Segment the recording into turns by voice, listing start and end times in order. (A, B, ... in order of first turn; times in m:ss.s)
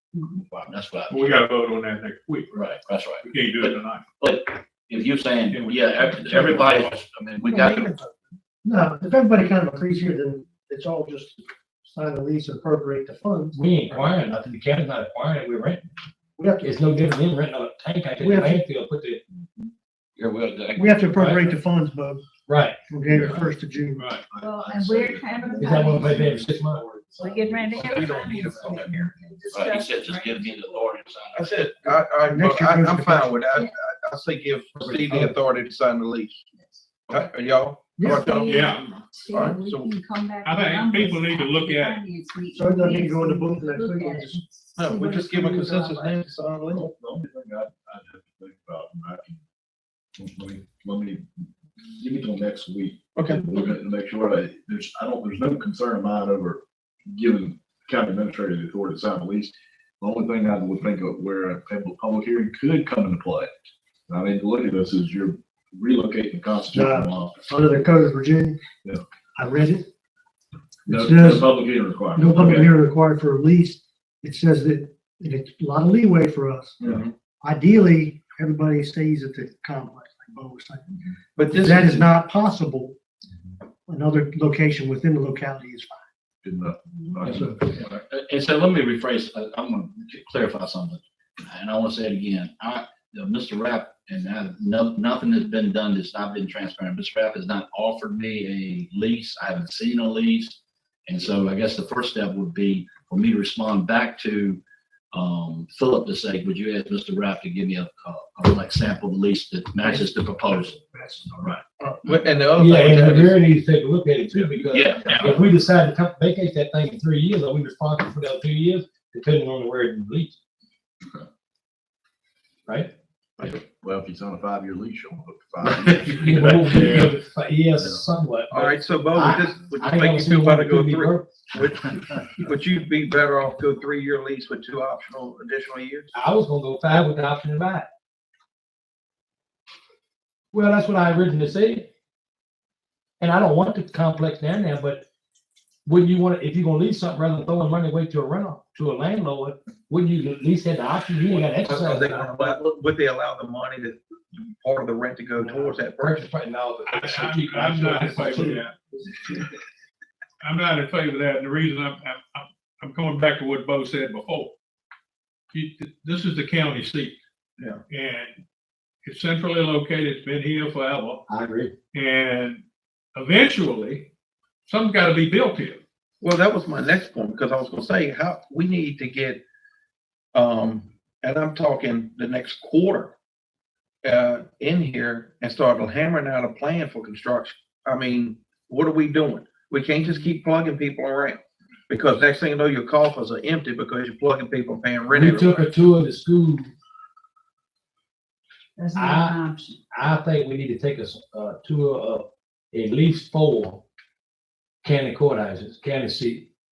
0:00.5-0:01.2 A
0:01.1-0:02.6 B
0:02.5-0:07.9 A
0:03.2-0:04.0 B
0:05.5-0:06.8 B
0:07.4-0:08.0 C
0:08.6-0:13.6 D
0:13.5-0:15.8 E
0:16.4-0:16.8 D
0:16.6-0:19.2 E
0:18.2-0:18.6 D
0:20.2-0:21.5 A
0:20.7-0:22.2 D
0:22.5-0:22.8 E
0:22.9-0:24.1 D
0:23.2-0:23.5 F
0:24.0-0:24.2 B
0:24.2-0:28.9 F
0:24.3-0:26.3 G
0:25.6-0:26.8 E
0:27.2-0:30.9 G
0:27.8-0:29.1 C
0:29.5-0:31.6 A
0:31.3-0:36.4 C
0:31.8-0:33.4 D
0:33.4-0:33.7 G
0:34.8-0:35.4 E
0:36.5-0:36.8 G
0:37.1-0:38.4 C
0:38.0-0:38.2 D
0:38.1-0:46.2 G
0:38.4-0:39.0 B
0:39.3-0:39.9 C
0:40.4-0:42.0 B
0:42.5-0:44.4 D
0:44.8-0:46.8 C
0:46.7-0:49.4 F
0:50.2-1:03.5 F
0:53.2-0:53.4 C
1:04.1-1:07.4 F
1:06.7-1:08.6 D
1:09.4-1:09.9 D
1:10.8-1:12.8 F
1:10.9-1:11.5 D
1:12.2-1:16.8 D
1:16.8-1:17.1 C
1:17.4-1:20.8 D
1:21.4-1:22.0 C
1:21.5-1:23.0 D
1:23.9-1:26.0 D
1:26.4-1:27.6 F
1:27.3-1:27.7 D
1:27.7-1:44.6 A
1:45.1-1:50.8 A
1:50.9-1:51.2 D
1:51.3-1:51.6 A
1:51.8-1:53.4 C
1:52.5-2:00.4 E
1:54.7-1:55.4 A
1:55.0-1:55.3 F
2:03.4-2:07.2 F
2:06.1-2:11.4 E
2:07.8-2:08.0 F
2:08.5-2:16.1 C
2:16.1-2:17.8 E
2:20.5-2:21.8 E
2:23.2-2:25.0 E
2:25.8-2:32.4 E
2:31.3-2:36.1 C
2:35.4-2:38.6 E
2:36.9-2:38.7 B
2:40.4-2:44.5 B
2:45.5-2:47.2 B
2:47.9-2:48.4 B
2:49.0-2:51.2 B
2:51.3-2:51.7 E
2:51.9-2:52.6 B
2:53.1-2:54.1 B
2:54.6-2:55.8 B
2:56.2-2:59.4 C
3:00.3-3:03.1 C
3:04.0-3:15.6 C
3:15.1-3:16.7 E
3:18.8-3:19.7 G
3:18.9-3:19.4 E
3:19.9-3:23.8 E
3:24.8-3:26.5 E